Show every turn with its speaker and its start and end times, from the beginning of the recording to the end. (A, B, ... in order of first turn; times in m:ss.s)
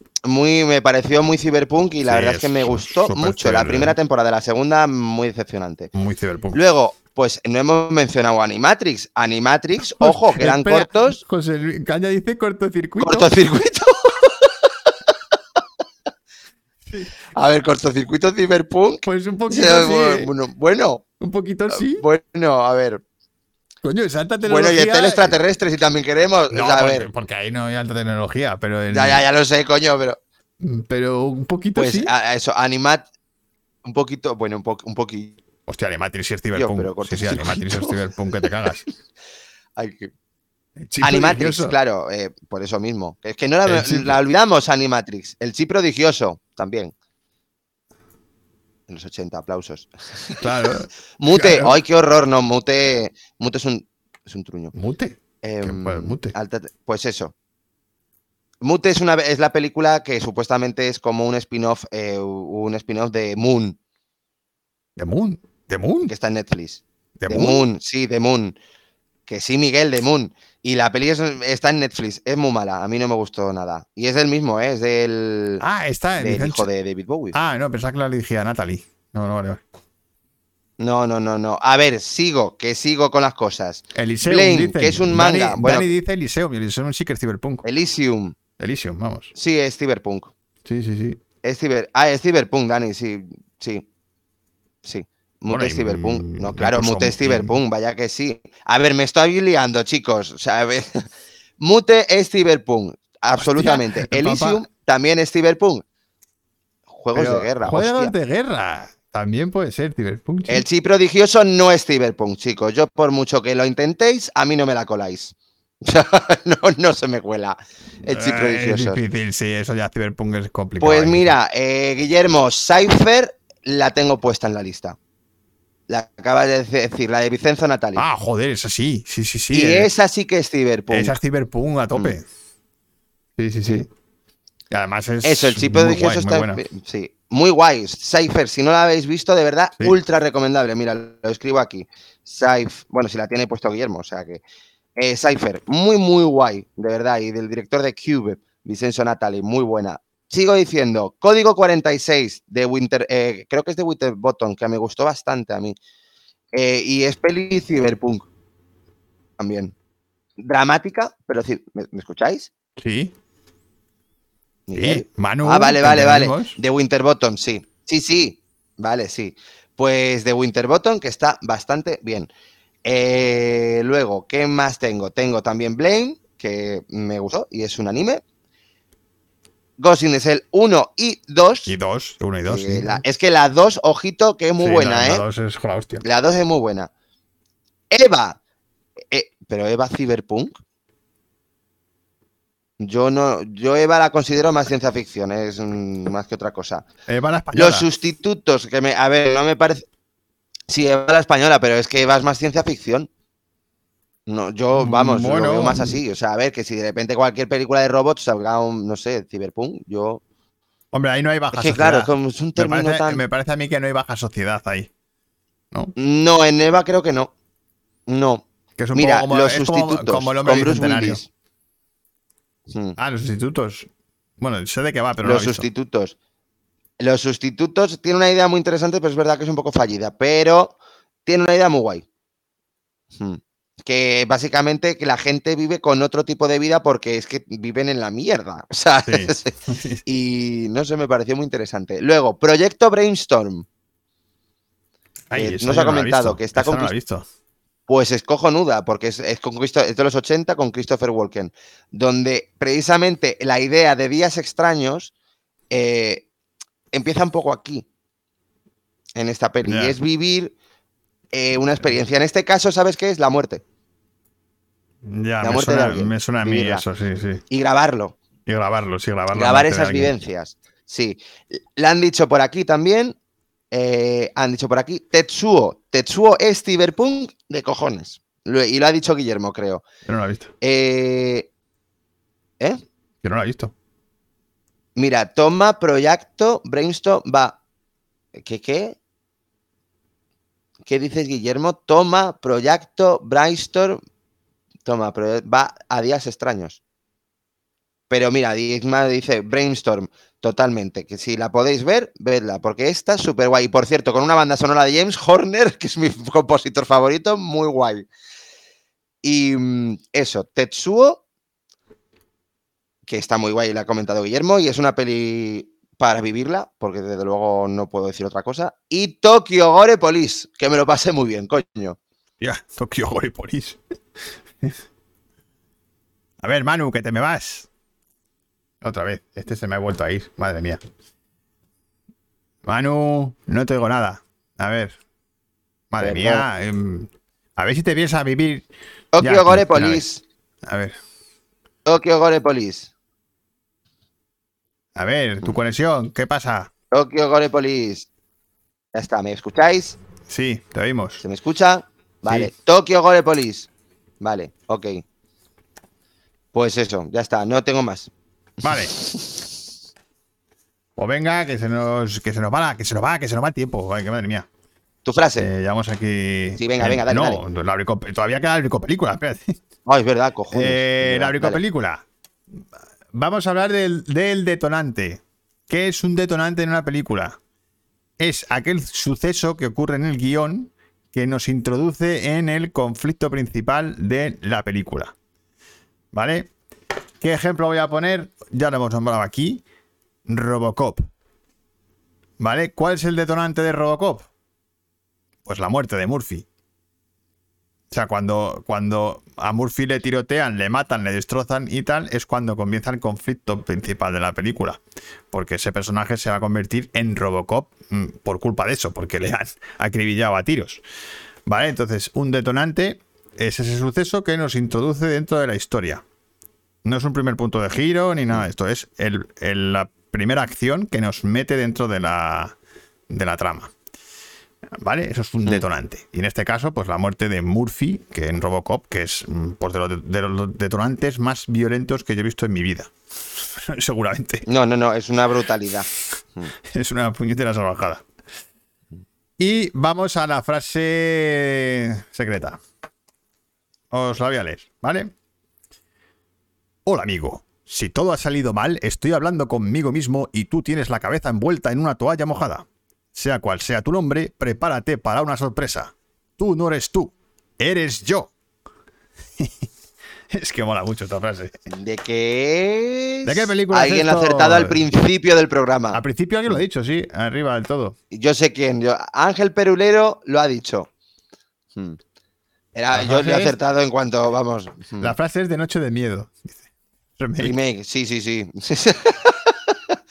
0:00.2-0:05.9 A
0:02.0-0:04.0 B
0:05.9-0:06.6 B
0:06.5-0:11.2 A
0:10.0-0:13.3 B
0:13.0-0:15.6 A
0:16.9-0:17.1 B
0:17.3-0:21.0 A
0:19.0-0:20.3 B
0:21.2-0:22.0 B
0:21.7-0:23.0 A
0:23.8-0:25.4 B
0:24.4-0:27.1 A
0:26.5-0:29.2 B
0:28.9-0:30.2 A
0:30.6-0:32.1 B
0:31.8-0:33.0 A
0:33.8-0:35.4 A
0:35.7-0:38.8 B
0:36.5-0:38.0 A
0:39.8-0:40.1 A
0:40.8-0:41.7 B
0:41.0-0:46.9 A
0:43.6-0:44.2 B
0:48.9-0:54.7 A
0:50.4-0:51.8 B
0:54.7-0:56.3 B
0:55.4-0:57.3 A
0:58.6-1:03.8 A
1:05.0-1:06.1 B
1:06.0-1:08.6 A
1:07.2-1:07.7 B
1:09.3-1:15.6 A
1:15.6-1:16.7 B
1:16.2-1:17.4 A
1:17.3-1:19.6 B
1:20.8-1:25.9 A
1:23.9-1:27.6 B
1:27.6-1:28.4 A
1:28.6-1:29.3 B
1:29.3-1:30.3 A
1:30.6-1:31.2 B
1:31.4-1:33.8 A
1:34.8-1:41.0 A
1:35.5-1:37.6 B
1:41.6-1:45.8 A
1:43.4-1:44.6 B
1:46.9-1:48.1 A
1:47.1-1:50.6 B
1:50.5-1:59.0 A
1:58.1-2:01.4 B
2:00.8-2:05.0 A
2:05.9-2:08.0 A
2:08.0-2:09.9 B
2:09.5-2:11.2 A
2:10.9-2:12.2 B
2:13.4-2:13.9 B
2:14.7-2:16.6 B
2:15.2-2:24.4 A
2:25.0-2:35.8 A
2:36.5-2:38.3 A
2:39.4-2:39.7 A
2:40.4-2:42.5 A
2:42.8-2:43.1 B
2:44.7-2:52.3 A
2:44.8-2:46.6 B
2:52.8-2:58.2 A
2:59.8-3:01.7 A
3:01.7-3:03.0 B
3:02.5-3:05.2 A
3:04.6-3:06.0 B
3:06.0-3:06.9 A
3:07.9-3:08.4 A
3:09.1-3:10.5 A
3:12.8-3:16.8 A
3:17.1-3:17.9 B
3:17.5-3:19.8 A
3:20.7-3:23.1 A
3:24.3-3:30.2 A
3:24.7-3:26.0 B
3:30.9-3:34.9 B
3:31.5-3:33.2 A
3:36.0-3:37.3 A
3:38.1-3:41.3 A
3:38.8-3:41.2 B
3:42.7-3:43.0 A
3:43.0-3:43.9 B
3:44.4-3:45.6 B
3:45.2-3:46.2 A
3:47.0-3:52.0 A
3:53.1-4:03.6 A
3:59.0-4:00.0 B
4:05.3-4:07.2 B
4:05.3-4:06.9 A
4:07.9-4:15.1 A
4:15.7-4:16.2 A
4:16.9-4:17.8 A
4:19.2-4:20.5 A
4:19.6-4:20.0 B
4:21.3-4:23.6 A
4:25.0-4:27.4 B
4:25.4-4:26.8 A
4:27.5-4:28.2 A
4:28.4-4:30.1 B
4:29.3-4:33.2 A
4:33.7-4:39.8 A
4:40.1-4:40.5 B
4:40.6-4:41.5 A
4:43.2-4:43.7 B
4:45.0-4:47.6 A
4:48.3-4:49.0 A
4:50.8-4:54.0 A
4:54.8-4:56.8 A
4:58.1-5:08.1 A
5:09.2-5:11.2 A
5:13.0-5:22.0 A
5:22.4-5:23.8 B
5:26.4-5:27.7 B
5:28.8-5:30.8 B
5:32.6-5:35.0 B
5:35.9-5:38.6 B
5:36.0-5:36.4 A
5:39.1-5:40.2 A
5:39.2-5:40.0 B
5:40.7-5:41.0 B
5:41.8-5:42.9 A
5:45.0-5:46.7 B
5:46.9-5:48.1 A
5:48.9-5:50.0 A
5:50.3-5:51.2 B
5:51.2-5:53.7 A
5:54.2-5:55.0 A
5:56.5-5:58.1 A
5:58.6-5:58.9 B
5:58.6-5:59.5 A
6:01.0-6:04.5 B
6:05.0-6:05.5 A
6:05.4-6:09.6 B
6:06.6-6:07.4 A
6:09.8-6:11.6 A
6:10.5-6:12.0 B
6:13.1-6:17.4 B
6:18.2-6:25.1 B
6:26.1-6:26.5 B
6:27.2-6:29.6 B
6:30.3-6:31.0 B
6:32.4-6:34.3 B
6:35.4-6:36.4 B
6:37.9-6:44.8 B
6:45.3-6:50.8 B
6:51.5-6:56.0 B
6:56.8-7:02.6 B
7:03.1-7:03.7 B
7:04.8-7:12.9 B
7:13.5-7:14.4 B
7:14.4-7:16.5 A
7:16.7-7:18.0 B
7:19.4-7:22.6 B
7:23.9-7:25.1 B
7:26.8-7:38.3 B
7:39.4-7:39.7 B
7:40.3-7:41.6 B
7:41.7-7:46.6 A
7:43.2-7:44.8 B
7:45.9-7:48.0 B
7:48.1-7:50.9 A
7:52.7-7:55.1 A
7:52.9-7:53.5 B
7:55.0-7:56.6 B
7:57.2-7:57.6 B
7:57.4-8:00.0 A